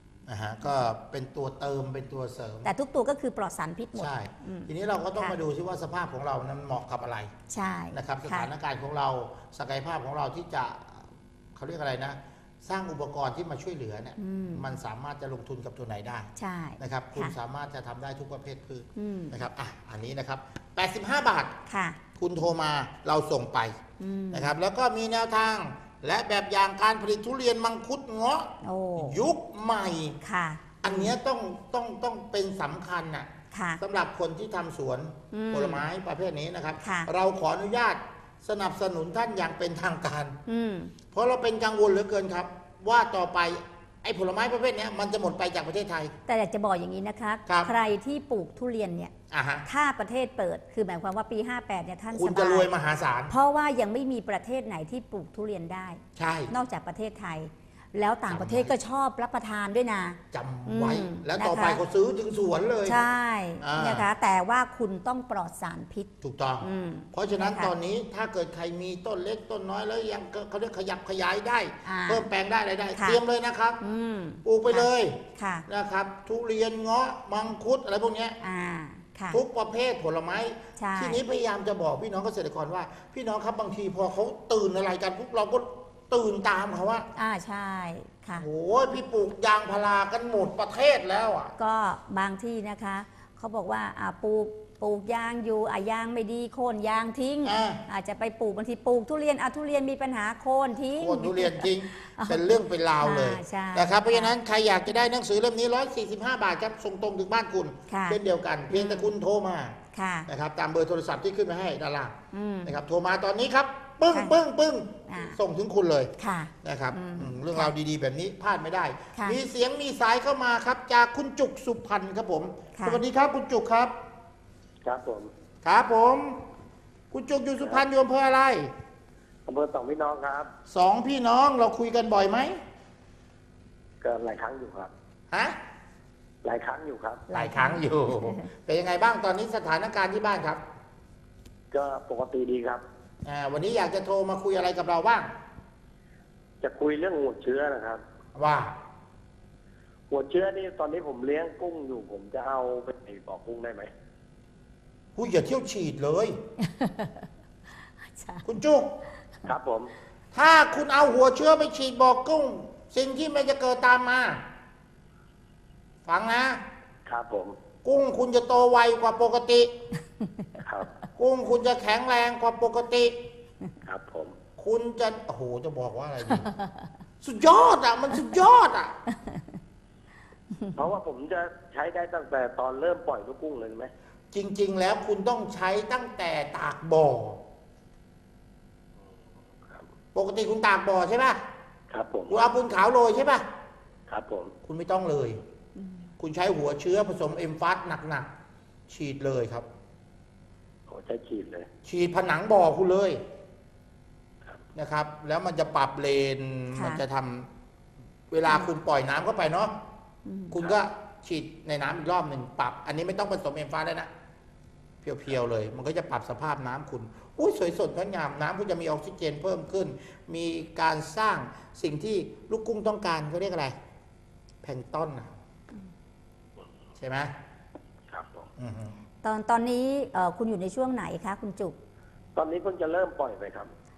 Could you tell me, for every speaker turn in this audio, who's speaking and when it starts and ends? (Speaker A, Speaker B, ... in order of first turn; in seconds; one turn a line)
Speaker A: 0.3-2.7
Speaker B: 2.6-5.3
Speaker A: 4.0-7.3
Speaker B: 7.5-8.5
Speaker A: 7.9-21.6
Speaker B: 14.2-14.7
Speaker B: 16.4-17.3
Speaker B: 18.9-19.4
Speaker B: 21.7-22.0
Speaker A: 22.1-23.8
Speaker B: 24.0-24.5
Speaker A: 24.3-30.2
Speaker B: 28.6-29.2
Speaker B: 30.2-31.1
Speaker A: 30.8-33.3
Speaker B: 33.5-33.8
Speaker A: 33.8-40.4
Speaker B: 35.3-35.8
Speaker B: 36.8-37.1
Speaker B: 40.5-40.9
Speaker A: 41.1-46.1
Speaker B: 46.3-49.1
Speaker A: 49.3-49.6
Speaker B: 49.6-52.7
Speaker A: 52.1-53.3
Speaker B: 53.3-61.8
Speaker A: 56.1-56.5
Speaker A: 58.3-58.7
Speaker A: 60.3-63.0
Speaker B: 62.9-67.7
Speaker A: 63.6-64.1
Speaker A: 66.2-73.8
Speaker B: 71.8-72.2
Speaker B: 73.8-75.7
Speaker A: 74.4-78.4
Speaker B: 78.4-79.4
Speaker A: 79.3-87.0
Speaker B: 80.8-81.2
Speaker B: 87.2-88.5
Speaker A: 88.3-91.5
Speaker B: 91.6-104.3
Speaker A: 97.4-97.8
Speaker A: 101.0-116.1
Speaker B: 107.9-108.2
Speaker B: 108.7-109.1
Speaker B: 109.9-110.3
Speaker B: 112.3-112.7
Speaker B: 114.1-114.4
Speaker B: 115.1-115.4
Speaker B: 116.2-117.7
Speaker A: 116.6-123.9
Speaker B: 122.7-123.0
Speaker C: 124.8-125.3
Speaker A: 125.6-126.4
Speaker A: 127.1-128.7
Speaker C: 129.4-130.5
Speaker A: 130.7-132.6
Speaker C: 134.0-134.9
Speaker A: 135.3-135.6
Speaker C: 136.4-137.2
Speaker B: 137.3-138.5
Speaker A: 137.3-140.6
Speaker C: 141.7-142.8
Speaker A: 143.2-145.3
Speaker C: 146.6-148.0
Speaker A: 148.3-148.8
Speaker C: 150.1-153.9
Speaker A: 155.2-156.4
Speaker B: 156.6-157.3
Speaker B: 158.1-158.4
Speaker A: 158.4-158.9
Speaker C: 159.4-159.9
Speaker A: 160.3-164.4
Speaker A: 166.1-166.6
Speaker C: 167.1-167.6
Speaker A: 167.8-169.7
Speaker C: 170.6-170.9
Speaker A: 171.2-173.2
Speaker C: 173.8-174.3
Speaker A: 174.6-176.5
Speaker B: 176.3-176.8
Speaker A: 177.2-179.0
Speaker B: 179.2-179.4
Speaker C: 180.7-183.9
Speaker A: 184.3-187.4
Speaker C: 189.1-189.9
Speaker A: 190.1-191.4
Speaker C: 191.9-192.4
Speaker A: 192.3-193.4
Speaker C: 194.1-194.5
Speaker A: 194.7-195.4
Speaker B: 195.8-196.1
Speaker A: 196.2-198.3
Speaker A: 198.9-199.7
Speaker C: 200.9-201.7
Speaker A: 201.8-203.2
Speaker A: 204.7-207.5
Speaker B: 206.7-207.0
Speaker A: 208.3-209.8
Speaker B: 210.2-210.6
Speaker A: 210.5-214.1
Speaker A: 215.0-223.7
Speaker A: 224.6-225.3
Speaker A: 227.0-227.3
Speaker C: 228.1-228.5
Speaker A: 228.6-229.0
Speaker B: 229.2-231.8
Speaker C: 232.3-233.7